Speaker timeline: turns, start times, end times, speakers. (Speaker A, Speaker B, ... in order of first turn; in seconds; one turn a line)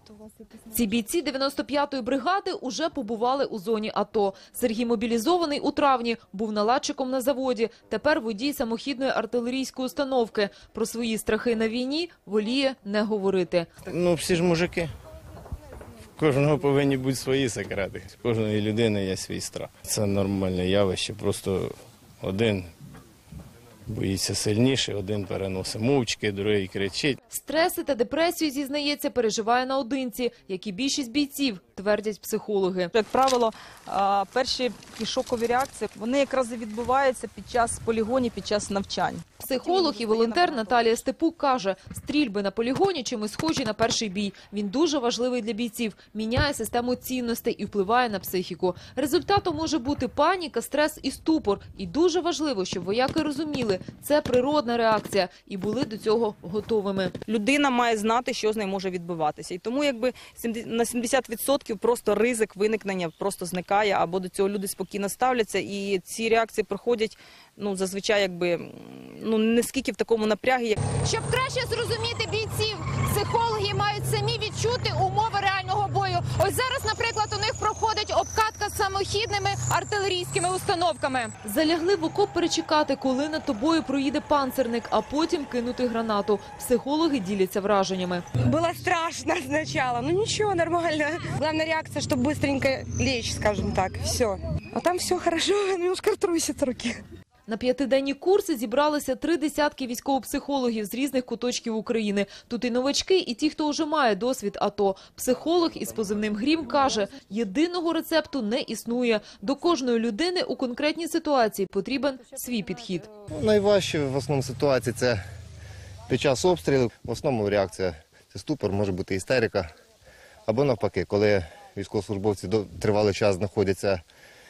Speaker A: 0.7-13.7
Speaker B: 13.8-14.9
Speaker B: 16.2-22.7
Speaker B: 23.9-27.2
Speaker A: 27.3-32.9
Speaker C: 32.9-40.9
Speaker A: 39.4-57.1
Speaker C: 57.3-70.8
Speaker D: 70.9-81.3
Speaker A: 81.4-88.2
Speaker E: 88.4-97.0
Speaker A: 97.5-113.1
Speaker F: 113.3-115.2
Speaker F: 116.1-119.7
Speaker F: 120.5-124.0